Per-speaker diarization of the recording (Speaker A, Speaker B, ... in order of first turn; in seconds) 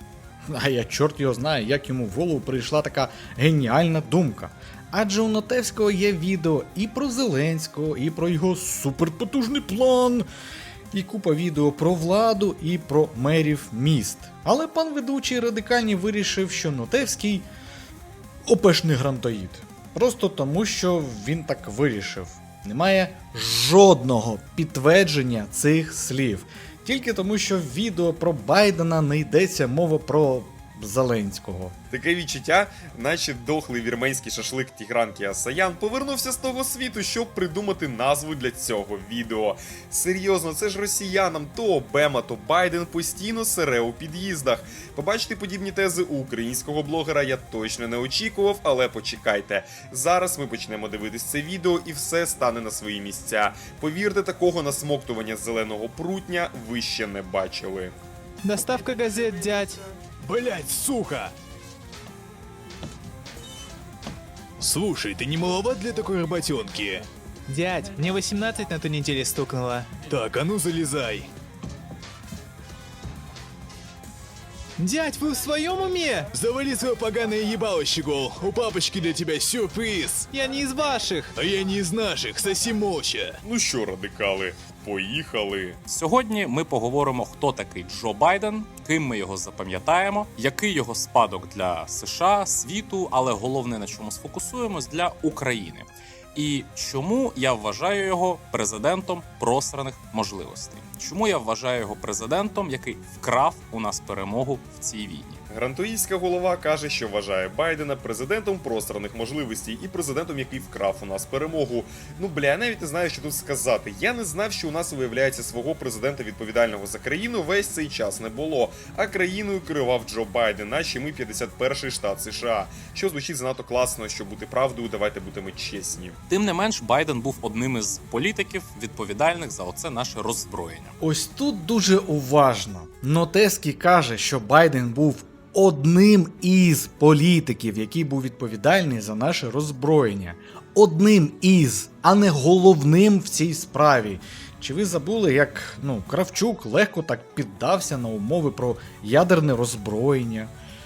Speaker A: 0.4-10.3, 10.9-17.5, 18.4-31.8, 131.0-150.5
Speaker B: 31.9-57.9, 83.4-85.8, 105.5-126.2
Speaker C: 58.4-59.8, 67.5-70.0, 74.8-76.3, 80.3-81.3
Speaker D: 60.2-61.3, 64.6-67.0, 70.1-71.3, 76.3-80.3, 81.3-83.4
Speaker E: 85.9-105.4, 126.3-130.9